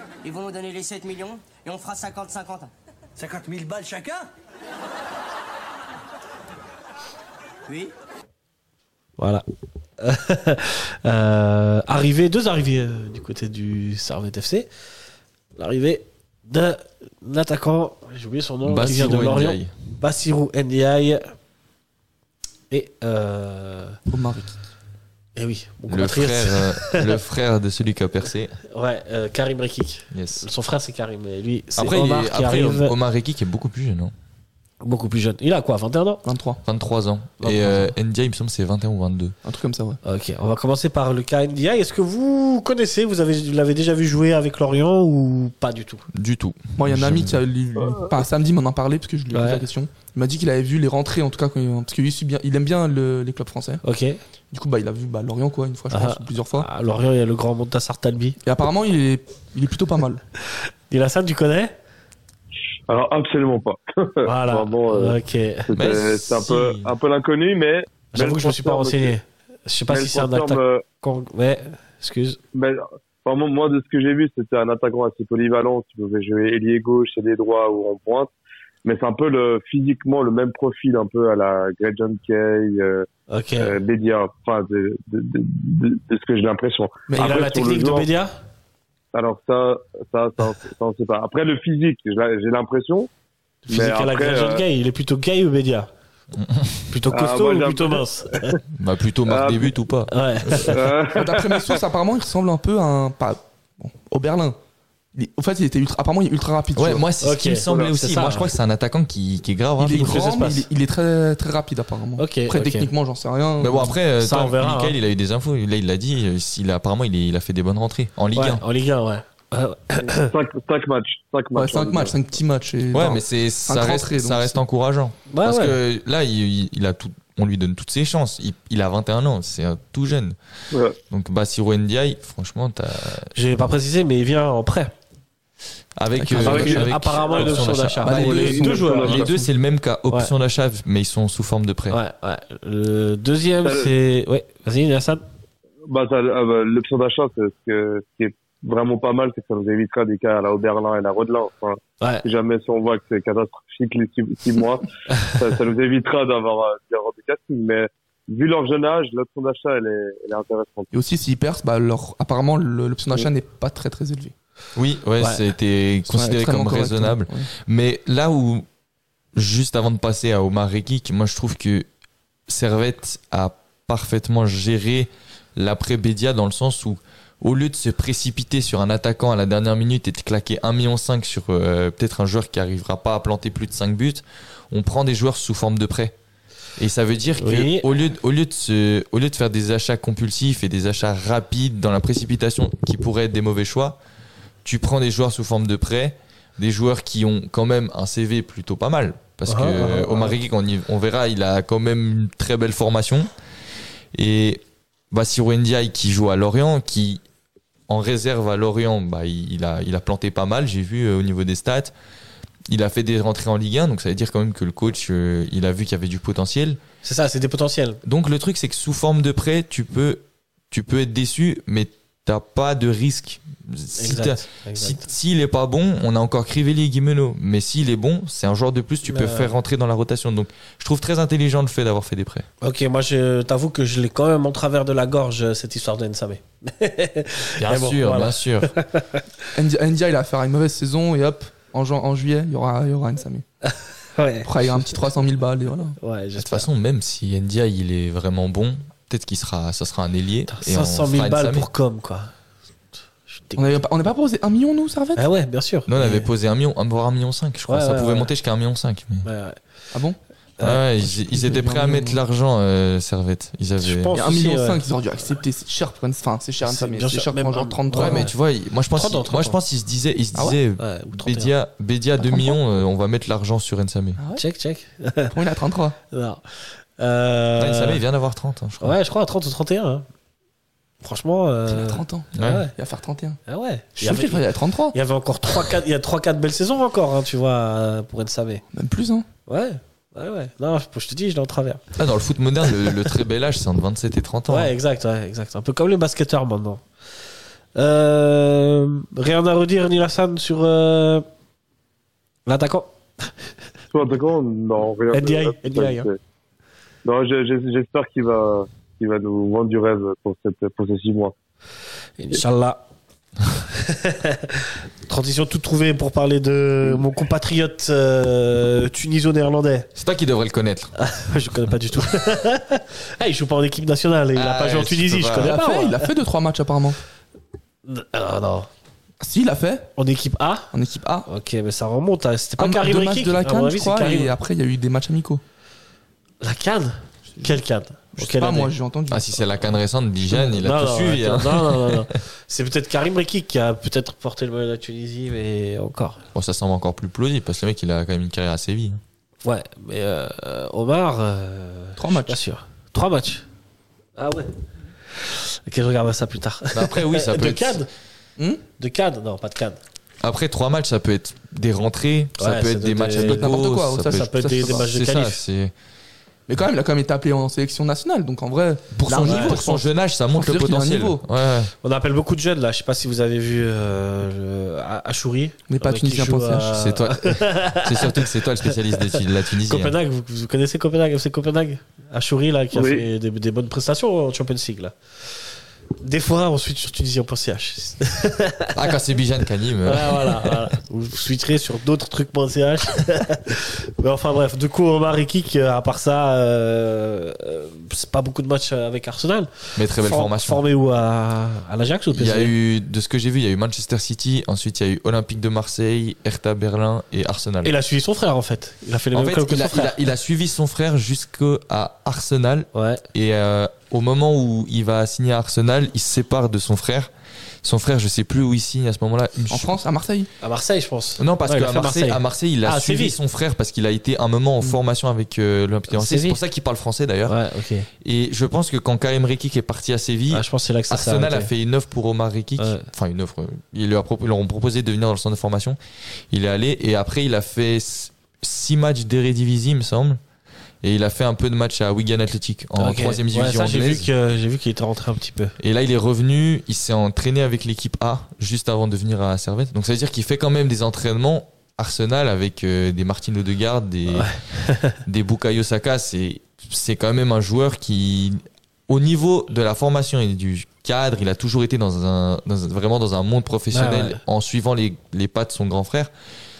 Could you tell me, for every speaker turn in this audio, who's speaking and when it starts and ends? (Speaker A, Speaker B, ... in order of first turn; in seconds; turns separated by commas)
Speaker A: 0.2-3.2, Speaker B: 9.2-9.4, Speaker B: 10.0-14.7, Speaker B: 15.6-21.3, Speaker C: 18.6-19.7, Speaker B: 22.7-24.0, Speaker D: 24.1-24.6, Speaker B: 25.3-27.1, Speaker C: 25.9-28.6, Speaker B: 28.7-32.9, Speaker C: 30.1-30.4, Speaker C: 31.8-34.1, Speaker B: 34.8-36.2, Speaker D: 36.2-36.6, Speaker C: 36.6-39.3, Speaker B: 37.4-37.9, Speaker D: 39.4-40.0, Speaker B: 40.0-46.0, Speaker C: 46.1-47.4, Speaker D: 46.8-53.8, Speaker B: 49.3-49.6, Speaker B: 53.8-54.2, Speaker D: 54.5-56.7, Speaker B: 55.9-58.4, Speaker D: 58.4-60.2, Speaker B: 60.9-61.7, Speaker E: 62.9-65.2, Speaker B: 64.2-65.7, Speaker E: 65.7-69.1, Speaker C: 65.7-66.9, Speaker B: 68.1-72.4, Speaker E: 69.9-70.8, Speaker E: 72.5-78.3, Speaker E: 78.8-83.1, Speaker B: 83.3-83.8, Speaker E: 83.6-88.1, Speaker D: 87.1-87.5, Speaker B: 87.1-88.3, Speaker E: 89.1-93.1, Speaker B: 93.6-95.9, Speaker E: 93.7-94.6, Speaker C: 96.3-96.8, Speaker B: 96.9-98.6, Speaker E: 97.1-98.5, Speaker C: 98.7-100.7, Speaker E: 99.3-99.7, Speaker B: 100.1-100.8, Speaker E: 100.6-101.8, Speaker D: 101.1-104.6, Speaker D: 105.1-107.1, Speaker C: 106.7-110.4, Speaker B: 107.2-108.5, Speaker E: 107.7-108.0, Speaker D: 109.8-114.0, Speaker B: 110.1-110.7, Speaker B: 112.2-112.9, Speaker C: 113.6-118.6, Speaker B: 114.2-115.0, Speaker B: 118.3-120.3, Speaker E: 120.2-122.1, Speaker D: 121.5-124.6, Speaker C: 122.9-130.4, Speaker B: 125.3-125.8, Speaker C: 131.1-133.3, Speaker B: 133.3-134.9, Speaker C: 136.0-142.0, Speaker D: 136.1-137.0, Speaker B: 136.3-139.1, Speaker E: 136.4-139.3, Speaker D: 137.6-139.5, Speaker B: 141.9-145.2, Speaker E: 143.6-143.9, Speaker E: 145.9-160.9, Speaker D: 160.9-164.3, Speaker C: 164.8-168.6, Speaker B: 165.2-165.4, Speaker D: 166.1-167.5, Speaker C: 169.3-171.9, Speaker C: 172.5-186.1, Speaker C: 186.8-194.0, Speaker B: 187.4-187.9, Speaker C: 194.6-203.3, Speaker B: 199.5-200.3, Speaker C: 204.1-207.2, Speaker C: 207.9-211.9, Speaker C: 212.7-216.8, Speaker B: 217.0-218.0, Speaker C: 218.0-232.5, Speaker B: 224.0-225.1, Speaker B: 229.0-229.6, Speaker B: 232.6-239.2, Speaker C: 237.6-238.7, Speaker D: 239.5-243.4, Speaker B: 244.1-244.9, Speaker D: 244.4-246.0, Speaker B: 246.0-246.7, Speaker C: 246.4-251.7, Speaker B: 250.5-252.3, Speaker B: 253.2-253.8, Speaker D: 253.6-255.2, Speaker B: 255.2-256.3, Speaker C: 255.9-259.3, Speaker B: 257.7-258.3, Speaker B: 259.2-259.6, Speaker D: 259.9-260.2, Speaker C: 260.6-264.1, Speaker D: 261.0-262.2, Speaker B: 263.8-264.9, Speaker D: 264.1-268.3, Speaker B: 266.6-268.3, Speaker C: 267.9-274.2, Speaker B: 268.9-269.6, Speaker D: 270.3-270.6, Speaker B: 270.8-271.5, Speaker D: 272.2-272.6, Speaker D: 274.2-274.4, Speaker B: 274.4-275.3, Speaker D: 275.3-276.0, Speaker B: 276.1-278.0, Speaker C: 277.6-279.0, Speaker B: 278.8-280.1, Speaker B: 281.0-282.7, Speaker D: 281.7-283.4, Speaker C: 282.3-282.7, Speaker B: 283.4-288.6, Speaker D: 283.9-284.9, Speaker D: 288.7-289.3, Speaker B: 289.5-291.8, Speaker C: 291.9-294.7, Speaker B: 292.7-293.1, Speaker B: 294.5-296.8, Speaker B: 297.7-301.2, Speaker B: 302.4-302.9, Speaker E: 303.9-306.1, Speaker B: 305.1-306.1, Speaker E: 307.0-311.3, Speaker B: 312.2-312.8, Speaker B: 313.7-319.9, Speaker C: 319.9-320.9, Speaker B: 321.0-326.1, Speaker C: 324.3-325.6, Speaker D: 325.4-327.0, Speaker B: 327.8-328.7, Speaker D: 329.2-329.9, Speaker B: 329.9-330.7, Speaker D: 330.7-331.3, Speaker B: 331.3-334.3, Speaker D: 332.6-335.4, Speaker B: 336.4-338.7, Speaker D: 338.1-339.3, Speaker C: 339.1-342.1, Speaker B: 340.3-346.2, Speaker C: 346.3-349.0, Speaker B: 349.4-353.4, Speaker D: 352.0-352.4, Speaker B: 354.2-354.5, Speaker B: 355.2-357.9, Speaker C: 356.7-357.8, Speaker D: 358.4-358.6, Speaker B: 358.8-359.8, Speaker C: 360.2-365.7, Speaker B: 362.4-365.4, Speaker D: 363.2-364.9, Speaker D: 366.5-371.2, Speaker C: 368.9-371.7, Speaker B: 369.1-369.6, Speaker B: 371.8-385.3, Speaker D: 375.7-376.8, Speaker C: 376.7-379.9, Speaker E: 382.7-383.1, Speaker B: 385.9-388.7, Speaker C: 388.7-390.6, Speaker B: 389.8-402.5, Speaker C: 399.8-400.6, Speaker C: 402.1-407.7, Speaker B: 407.6-410.0, Speaker C: 409.1-417.1, Speaker B: 412.7-413.0, Speaker C: 417.6-419.8, Speaker D: 419.5-420.3, Speaker B: 420.4-423.2, Speaker C: 421.2-427.4, Speaker B: 425.9-426.4, Speaker B: 427.2-427.9, Speaker C: 428.0-435.8, Speaker B: 430.3-431.5, Speaker B: 432.6-432.9, Speaker C: 436.3-440.2, Speaker C: 440.8-444.1, Speaker B: 442.8-445.5, Speaker C: 445.6-454.4, Speaker B: 454.1-455.0, Speaker C: 455.0-466.1, Speaker B: 463.7-464.2